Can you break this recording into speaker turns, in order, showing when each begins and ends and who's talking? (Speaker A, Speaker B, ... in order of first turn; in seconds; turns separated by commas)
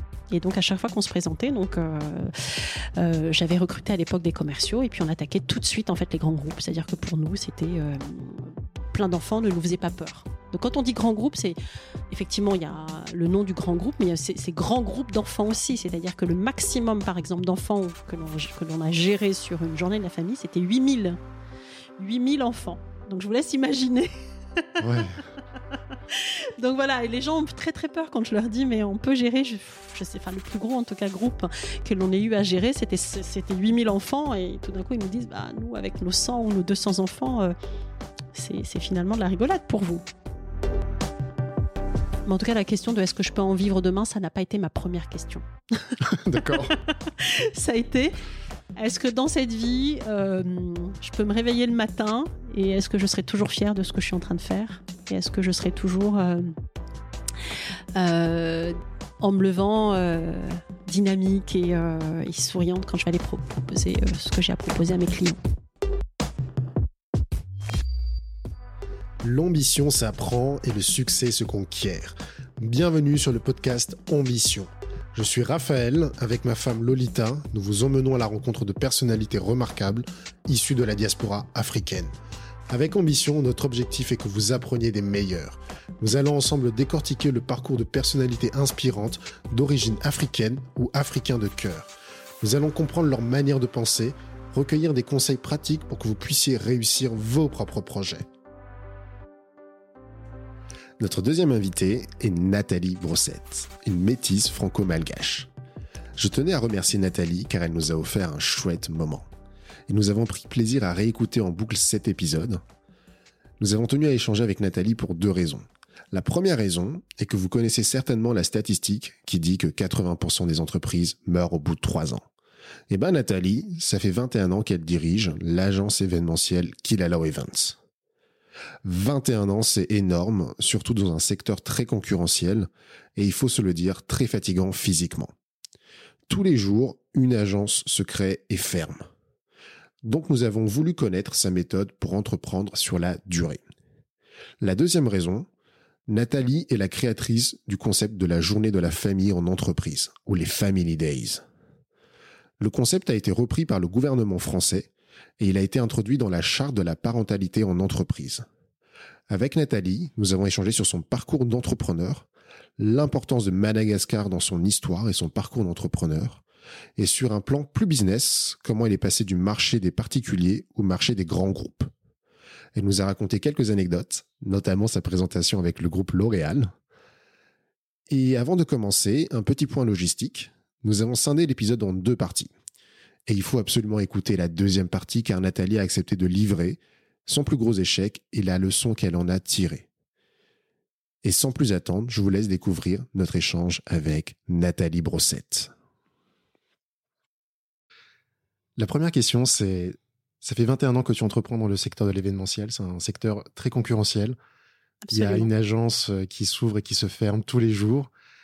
Speaker A: 0.3-11.6, Speaker A: 12.1-21.2, Speaker A: 22.0-25.0, Speaker B: 24.8-25.2, Speaker A: 26.1-37.5, Speaker A: 38.3-40.0, Speaker A: 42.3-48.2, Speaker B: 46.0-46.8, Speaker A: 48.8-56.5, Speaker A: 58.0-65.4, Speaker B: 69.2-82.1, Speaker B: 82.7-91.9, Speaker B: 92.4-98.2, Speaker B: 101.0-105.5, Speaker B: 106.2-109.3, Speaker B: 109.9-112.6, Speaker B: 113.6-122.2, Speaker B: 122.9-127.8, Speaker B: 128.8-135.3, Speaker B: 136.3-139.1, Speaker B: 140.0-143.6, Speaker B: 144.6-145.5, Speaker B: 146.1-151.4, Speaker B: 152.6-158.4, Speaker B: 159.3-162.3, Speaker B: 162.8-166.4, Speaker B: 167.0-171.9, Speaker B: 172.8-176.7, Speaker B: 178.1-182.5, Speaker B: 183.3-189.9, Speaker B: 191.2-195.7, Speaker B: 198.8-204.4, Speaker A: 205.1-205.5, Speaker B: 205.1-208.1